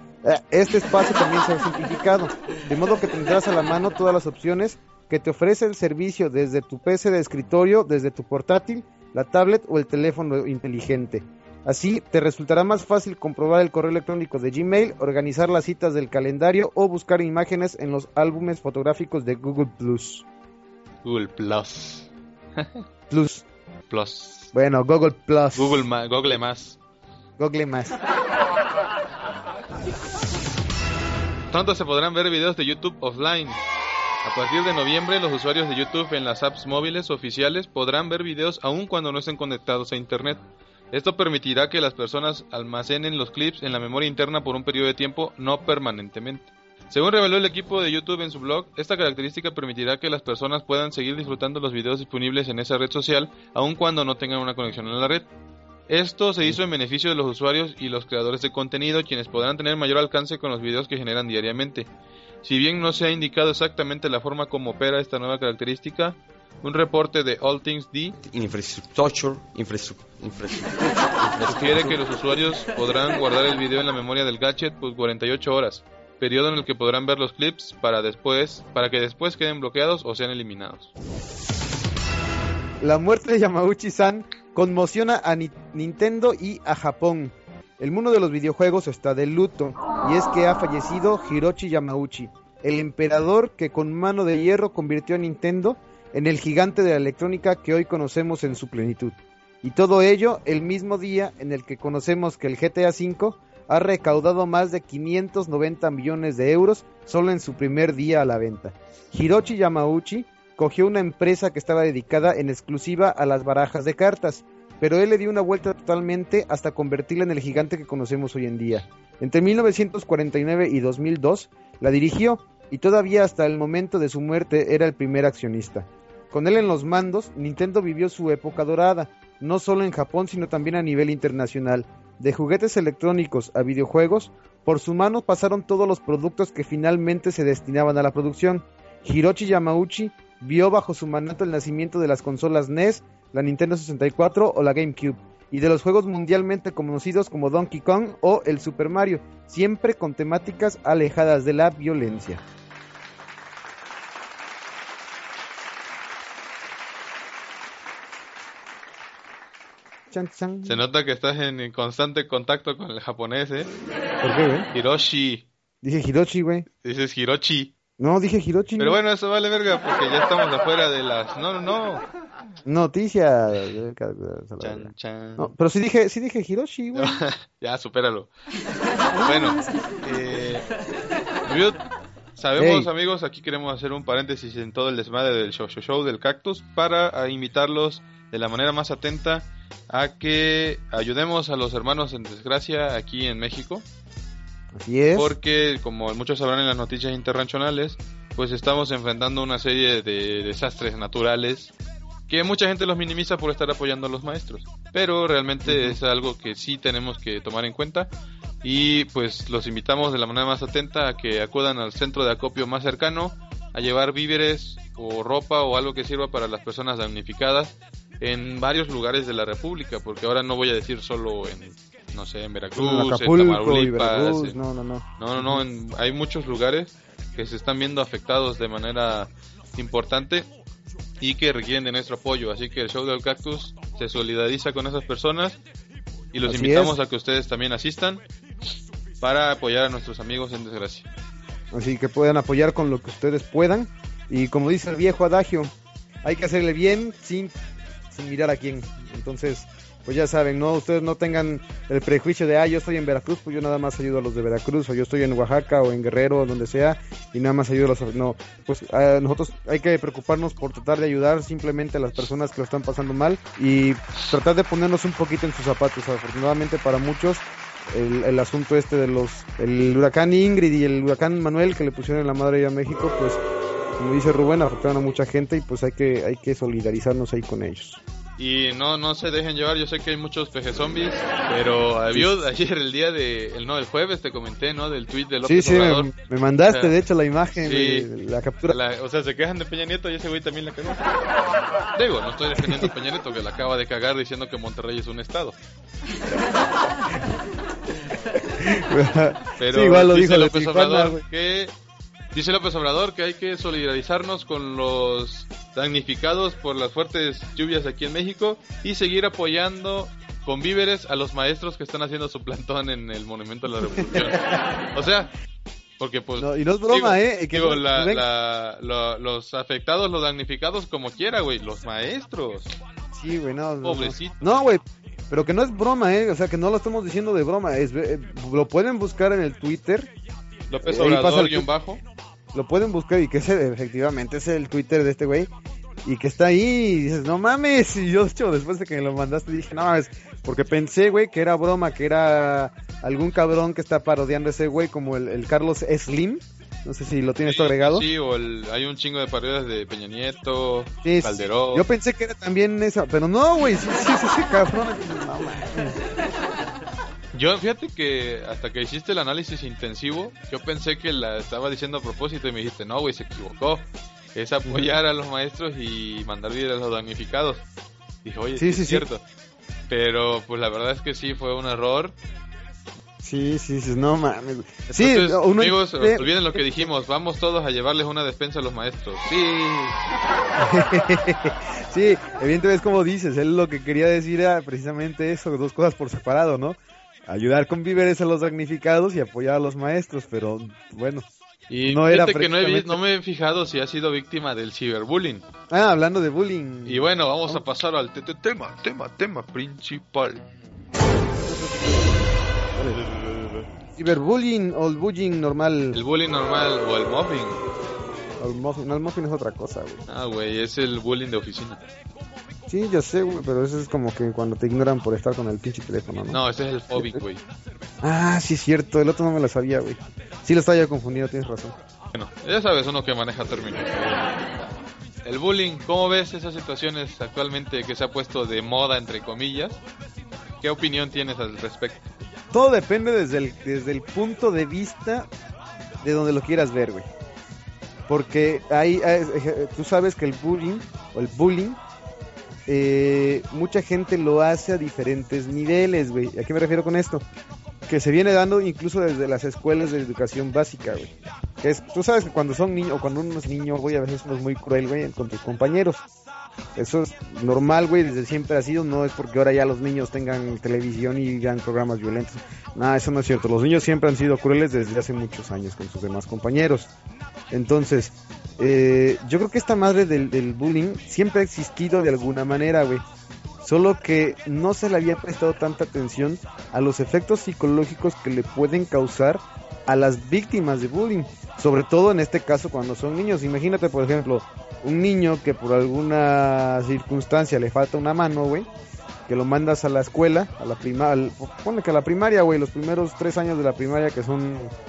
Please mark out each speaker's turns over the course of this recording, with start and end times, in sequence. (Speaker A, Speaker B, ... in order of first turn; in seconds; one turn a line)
Speaker A: 0.2-20.2
Speaker B: 21.0-22.8
Speaker A: 23.1-23.4
Speaker B: 23.9-24.5
Speaker A: 24.5-25.8
Speaker B: 25.5-26.8
Speaker A: 27.4-28.0
Speaker B: 31.5-33.6
Speaker B: 34.2-55.3
Speaker B: 55.9-61.9
Speaker B: 62.4-68.1
Speaker C: 68.2-72.0
Speaker B: 71.4-80.9
Speaker A: 82.8-152.4
Speaker A: 160.1-160.8
Speaker B: 160.6-163.7
Speaker A: 164.2-164.7
Speaker B: 164.7-165.4
Speaker A: 165.8-166.7
Speaker B: 166.8-167.7
Speaker A: 168.0-169.0
Speaker B: 168.8-172.0
Speaker A: 172.6-177.2
Speaker B: 174.6-175.5
Speaker B: 176.9-178.3
Speaker B: 179.2-180.6
Speaker A: 179.2-179.7
Speaker B: 181.4-181.8
Speaker B: 182.4-193.8
Speaker A: 182.6-182.9
Speaker A: 194.7-195.3
Speaker B: 195.2-201.7
Speaker B: 202.3-208.1
Speaker A: 205.6-206.0
Speaker B: 208.6-224.6
Speaker A: 222.8-225.6
Speaker B: 225.2-230.5
Speaker B: 231.2-235.6
Speaker B: 236.3-238.2
Speaker A: 236.4-236.9
Speaker B: 239.2-241.1
Speaker A: 241.7-247.5
Speaker A: 248.1-273.4
Speaker A: 274.0-278.0
Speaker B: 278.4-286.1
Speaker A: 282.1-282.4
Speaker A: 285.4-288.8
Speaker B: 286.7-286.9
Speaker B: 287.6-288.1
Speaker B: 288.6-291.0
Speaker B: 291.9-295.6
Speaker A: 292.6-292.9
Speaker A: 298.6-301.2
Speaker B: 299.6-301.7
Speaker B: 302.3-315.3
Speaker A: 313.8-314.6
Speaker B: 316.0-322.7
Speaker A: 316.4-318.2
Speaker A: 323.1-330.1
Speaker B: 323.8-324.5
Speaker B: 330.7-332.0
Speaker A: 330.8-331.7
Speaker A: 332.5-335.5
Speaker A: 336.0-348.1
Speaker B: 347.4-351.9
Speaker A: 351.0-356.0
Speaker B: 357.3-367.6
Speaker A: 364.6-364.9
Speaker B: 368.2-369.2
Speaker A: 368.6-369.1
Speaker B: 369.9-372.1
Speaker A: 373.2-376.9
Speaker B: 374.9-380.0
Speaker A: 380.6-391.3
Speaker B: 391.7-395.4
Speaker A: 391.8-393.0
Speaker A: 395.7-397.6
Speaker B: 396.9-400.4
Speaker A: 401.2-403.0
Speaker B: 402.9-403.7
Speaker A: 403.9-406.0
Speaker B: 405.9-407.6
Speaker A: 408.4-410.0
Speaker B: 410.1-411.8
Speaker A: 412.7-416.4
Speaker B: 416.3-417.4
Speaker A: 416.9-417.2
Speaker A: 418.0-421.8
Speaker B: 422.1-424.5
Speaker B: 425.2-429.8
Speaker B: 430.6-432.1
Speaker A: 432.5-435.3
Speaker A: 436.0-437.1
Speaker A: 438.1-441.8
Speaker A: 442.7-447.2
Speaker A: 447.9-456.0
Speaker A: 456.8-466.9
Speaker A: 467.5-473.0
Speaker A: 473.6-488.7
Speaker A: 489.3-494.7